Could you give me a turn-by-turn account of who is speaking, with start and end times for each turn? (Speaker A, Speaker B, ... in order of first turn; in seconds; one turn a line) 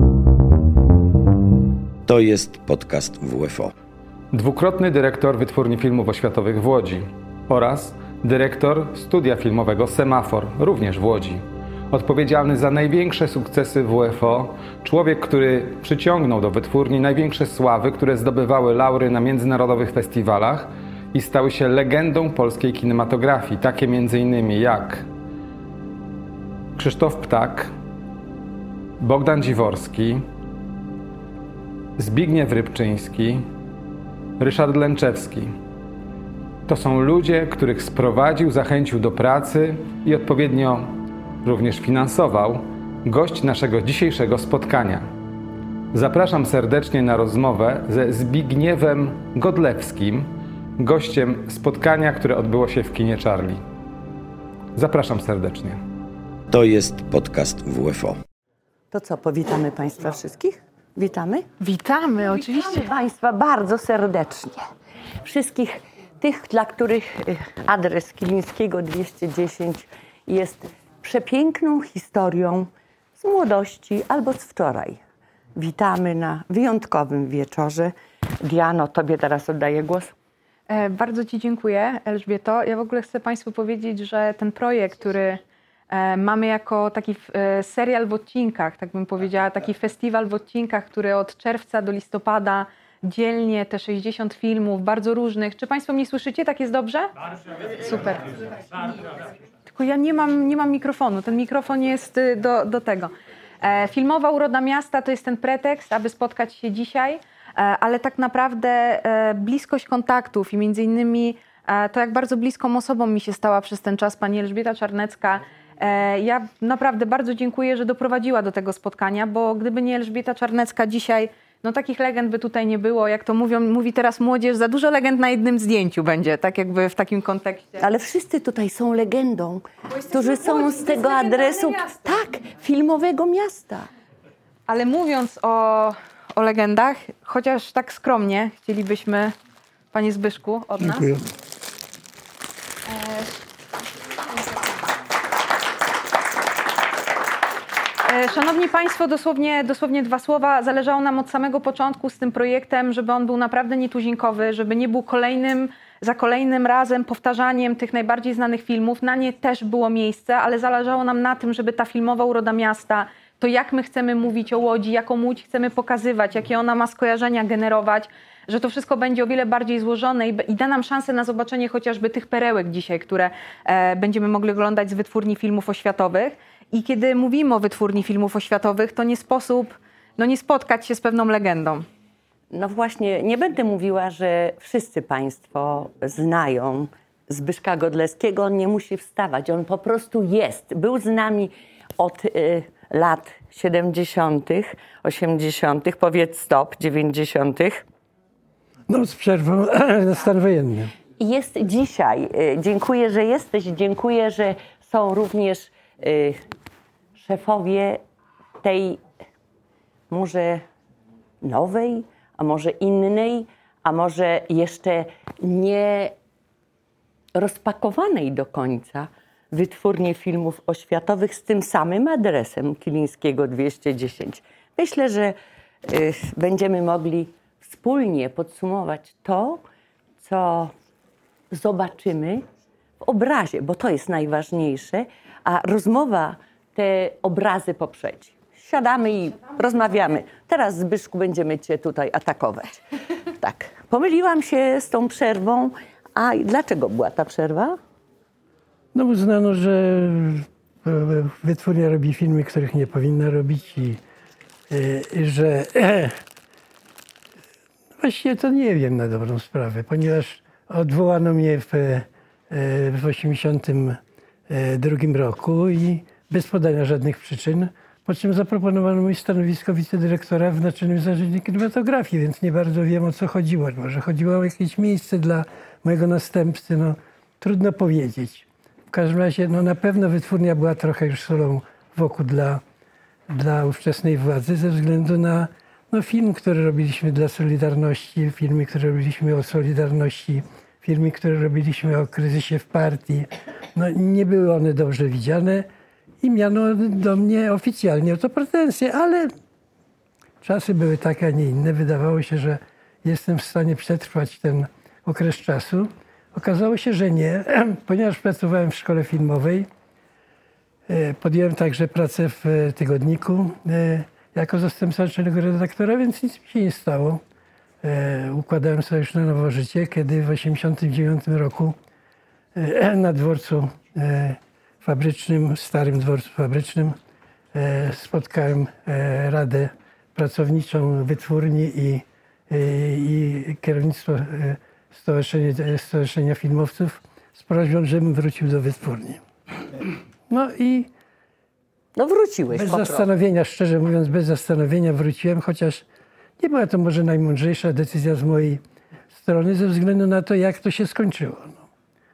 Speaker A: 2.1-3.7
Speaker B: 4.3-25.1
Speaker B: 26.8-27.7
Speaker B: 29.0-30.2
Speaker B: 32.0-33.4
Speaker B: 34.4-35.5
Speaker B: 36.7-45.0
Speaker B: 45.9-53.6
Speaker B: 54.8-55.8
Speaker A: 56.5-58.2
Speaker C: 58.9-61.5
Speaker D: 61.6-62.9
Speaker C: 62.4-64.7
Speaker C: 65.2-75.0
Speaker C: 75.5-80.1
Speaker D: 80.7-97.1
Speaker D: 97.8-98.9
Speaker D: 99.7-127.8
Speaker C: 127.8-133.9
Speaker D: 129.9-131.9
Speaker D: 134.7-139.3
Speaker D: 139.9-141.1
Speaker D: 142.9-143.4
Speaker D: 148.0-181.8
Speaker C: 182.5-197.8
Speaker E: 198.9-200.9
Speaker C: 201.2-206.4
Speaker C: 207.2-208.0
Speaker C: 208.6-209.0
Speaker C: 210.1-210.6
Speaker C: 211.4-216.1
Speaker C: 217.3-225.3
Speaker C: 225.9-229.6
Speaker C: 230.2-230.7
Speaker C: 231.5-232.4
Speaker C: 233.0-242.8
Speaker C: 243.3-247.8
Speaker E: 248.9-254.0
Speaker E: 254.7-256.1
Speaker E: 258.0-282.6
Speaker E: 283.3-295.7
Speaker E: 296.2-299.3
Speaker E: 300.4-309.7
Speaker E: 310.9-317.2
Speaker E: 317.8-321.8
Speaker E: 322.5-326.9
Speaker E: 327.5-339.2
Speaker E: 340.3-340.9
Speaker C: 341.9-343.1
Speaker E: 342.5-345.8
Speaker E: 346.4-348.6
Speaker E: 349.1-351.7